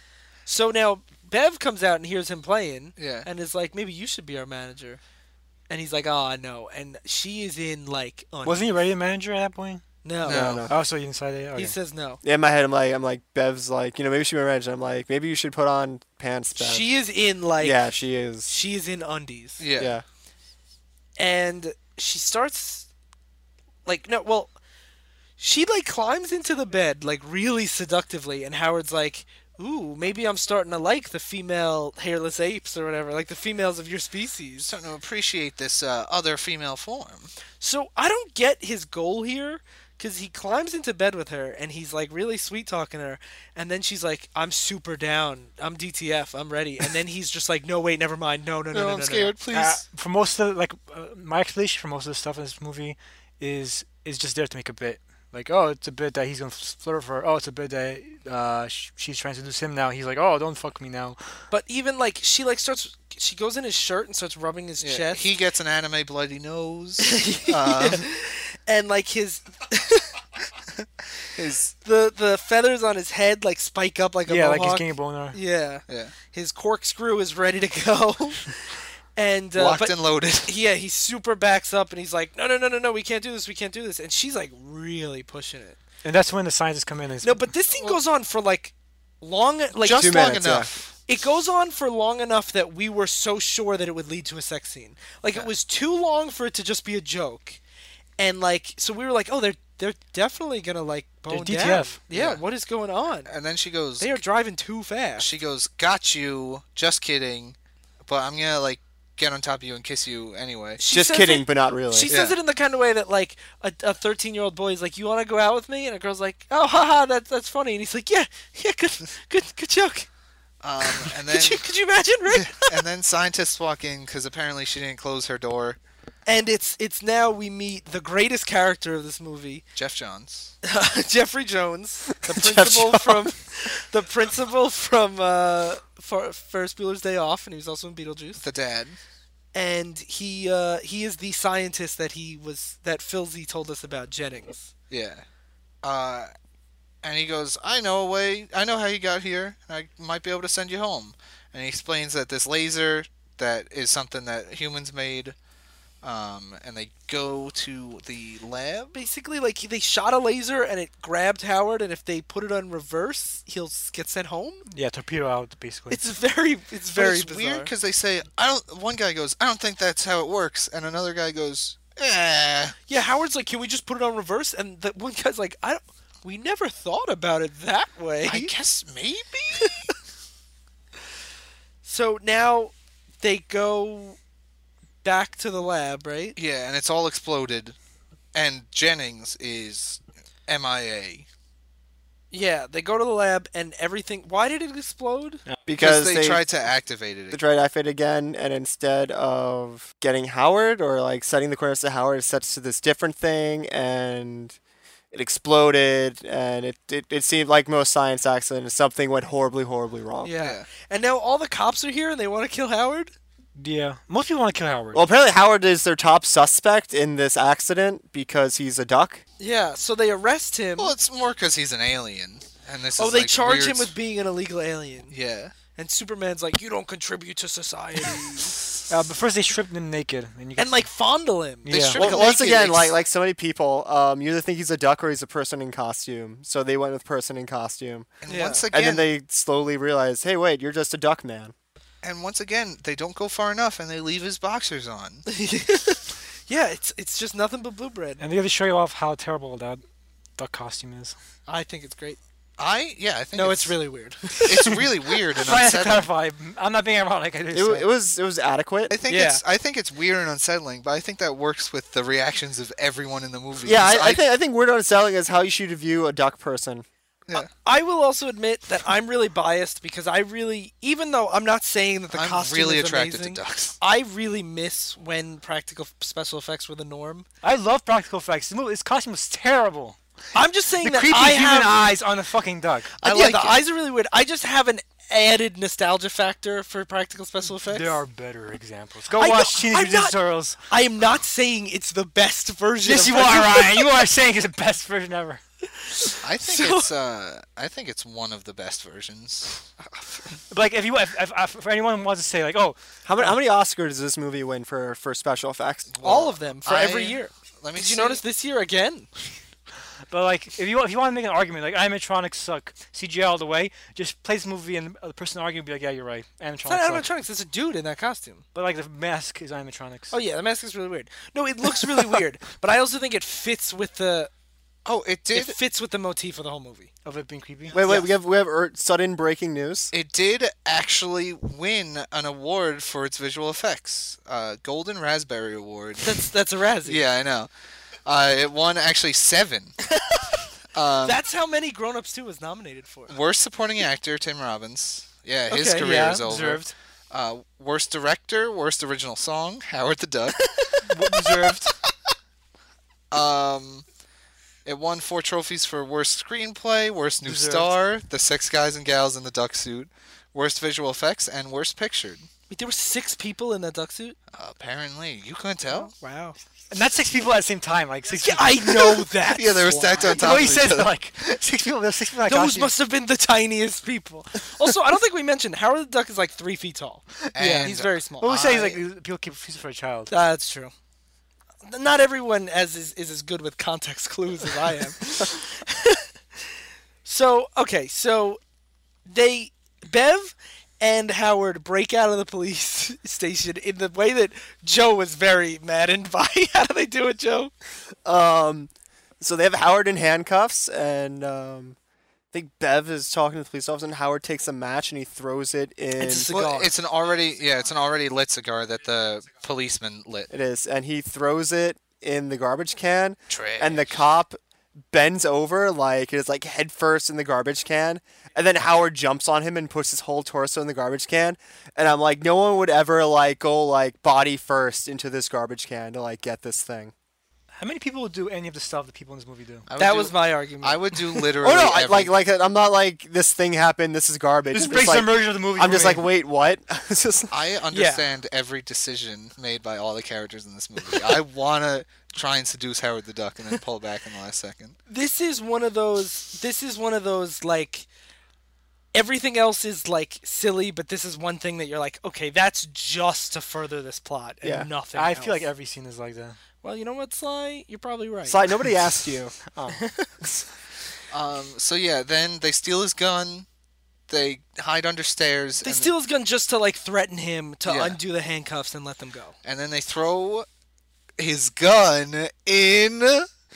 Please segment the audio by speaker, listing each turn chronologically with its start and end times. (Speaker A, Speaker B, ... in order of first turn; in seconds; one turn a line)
Speaker A: 0.5-5.0
Speaker B: 3.0-3.3
Speaker A: 5.7-8.6
Speaker C: 8.4-9.8
Speaker A: 10.0-10.7
Speaker B: 10.2-10.7
Speaker D: 10.3-10.7
Speaker C: 10.7-11.8
Speaker A: 11.6-12.2
Speaker D: 12.2-16.9
Speaker A: 16.6-17.8
Speaker D: 17.6-18.5
Speaker A: 18.5-19.7
Speaker B: 19.6-20.0
Speaker D: 19.8-20.0
Speaker A: 21.2-22.9
Speaker A: 23.9-24.6
Speaker A: 25.4-34.8
Speaker B: 34.6-37.3
Speaker A: 37.6-49.3
Speaker B: 48.7-49.8
Speaker C: 49.5-61.2
Speaker A: 61.5-65.2
Speaker B: 64.8-68.1
Speaker A: 67.0-70.1
Speaker B: 71.3-71.7
Speaker A: 71.8-85.8
Speaker C: 74.3-75.4
Speaker B: 75.9-76.2
Speaker B: 79.6-80.6
Speaker C: 86.0-87.5
Speaker A: 87.2-90.4
Speaker B: 89.8-91.0
Speaker D: 90.0-90.7
Speaker A: 91.1-97.6
Speaker A: 98.2-103.3
Speaker C: 101.3-102.0
Speaker B: 102.1-102.4
Speaker B: 103.3-104.2
Speaker A: 104.0-105.3
Speaker B: 105.2-110.8
Speaker A: 110.8-120.1
Speaker D: 110.9-112.1
Speaker B: 112.1-112.4
Speaker B: 120.6-121.7
Speaker A: 120.8-122.8
Speaker B: 122.3-125.8
Speaker A: 126.3-129.6
Speaker B: 129.8-130.5
Speaker A: 130.6-138.4
Speaker D: 132.3-133.3
Speaker B: 138.4-139.0
Speaker A: 139.5-144.7
Speaker B: 144.9-145.2
Speaker B: 145.8-146.3
Speaker B: 147.0-155.3
Speaker B: 156.0-158.9
Speaker A: 158.9-164.6
Speaker C: 164.7-166.1
Speaker A: 165.9-167.7
Speaker B: 166.9-172.8
Speaker A: 172.9-178.5
Speaker B: 178.2-179.9
Speaker A: 179.6-179.8
Speaker A: 181.8-184.2
Speaker A: 185.0-186.4
Speaker B: 186.4-187.8
Speaker B: 188.3-191.3
Speaker A: 192.3-195.4
Speaker D: 195.7-196.4
Speaker B: 195.8-197.4
Speaker D: 197.3-204.6
Speaker D: 205.1-210.3
Speaker A: 210.2-213.1
Speaker C: 213.6-215.1
Speaker D: 214.9-219.2
Speaker A: 219.4-220.9
Speaker B: 220.8-223.9
Speaker A: 223.0-225.1
Speaker B: 225.1-225.5
Speaker A: 225.8-228.6
Speaker C: 228.9-230.9
Speaker A: 230.6-232.8
Speaker C: 231.7-232.0
Speaker B: 231.8-232.8
Speaker D: 231.9-238.1
Speaker B: 238.2-239.1
Speaker A: 238.3-238.7
Speaker D: 238.7-241.5
Speaker B: 242.0-245.3
Speaker A: 245.3-248.2
Speaker C: 248.2-249.8
Speaker C: 250.4-251.2
Speaker A: 251.5-252.2
Speaker B: 252.6-253.8
Speaker A: 253.3-254.9
Speaker B: 254.3-256.1
Speaker C: 255.4-257.9
Speaker D: 257.5-258.9
Speaker B: 258.9-264.2
Speaker A: 259.1-259.4
Speaker D: 263.6-266.9
Speaker A: 267.4-277.3
Speaker B: 272.1-273.8
Speaker C: 277.4-280.0
Speaker A: 280.4-281.8
Speaker C: 280.8-282.9
Speaker B: 283.0-283.6
Speaker A: 283.0-288.0
Speaker C: 287.7-290.6
Speaker A: 289.1-294.1
Speaker C: 292.8-295.4
Speaker A: 295.8-296.9
Speaker B: 296.2-299.6
Speaker A: 299.8-300.4
Speaker C: 300.5-303.4
Speaker D: 303.1-305.9
Speaker B: 305.9-308.2
Speaker A: 306.0-309.1
Speaker C: 310.1-317.1
Speaker A: 316.7-318.4
Speaker C: 318.6-320.1
Speaker A: 320.1-324.3
Speaker B: 324.9-325.6
Speaker A: 325.3-326.9
Speaker C: 327.1-327.8
Speaker D: 327.7-329.9
Speaker A: 327.7-328.1
Speaker B: 329.9-336.3
Speaker A: 336.0-337.0
Speaker B: 336.9-337.5
Speaker B: 338.1-339.8
Speaker A: 340.0-340.3
Speaker B: 340.7-341.2
Speaker A: 341.1-343.2
Speaker B: 343.1-350.8
Speaker A: 345.5-346.3
Speaker C: 345.8-346.7
Speaker C: 350.8-351.7
Speaker B: 353.1-353.8
Speaker B: 354.6-362.3
Speaker C: 357.2-357.7
Speaker A: 362.5-364.2
Speaker B: 364.3-365.9
Speaker A: 365.7-366.4
Speaker C: 366.7-368.9
Speaker A: 368.1-370.4
Speaker B: 369.2-370.9
Speaker C: 370.0-372.7
Speaker A: 372.3-378.8
Speaker B: 377.3-378.7
Speaker C: 378.2-380.1
Speaker A: 380.1-380.7
Speaker A: 381.6-386.1
Speaker A: 387.1-388.4
Speaker A: 389.1-397.5
Speaker D: 398.1-398.7
Speaker D: 399.2-401.8
Speaker D: 402.3-406.3
Speaker A: 406.0-406.7
Speaker B: 406.3-410.3
Speaker D: 410.3-414.4
Speaker B: 413.3-414.0
Speaker D: 414.9-426.9
Speaker C: 427.5-429.7
Speaker B: 429.7-432.1
Speaker A: 429.8-431.3
Speaker D: 431.4-437.3
Speaker C: 434.5-436.1
Speaker B: 437.3-444.8
Speaker A: 437.7-438.1
Speaker A: 444.9-447.9
Speaker A: 448.9-455.5
Speaker D: 454.4-454.7
Speaker C: 454.9-456.4
Speaker A: 456.6-458.6
Speaker D: 458.3-459.4
Speaker C: 459.5-459.8
Speaker A: 459.7-460.2
Speaker B: 461.1-463.5
Speaker B: 464.1-465.9
Speaker A: 465.6-469.3
Speaker B: 467.6-468.0
Speaker B: 469.4-470.5
Speaker B: 471.2-473.3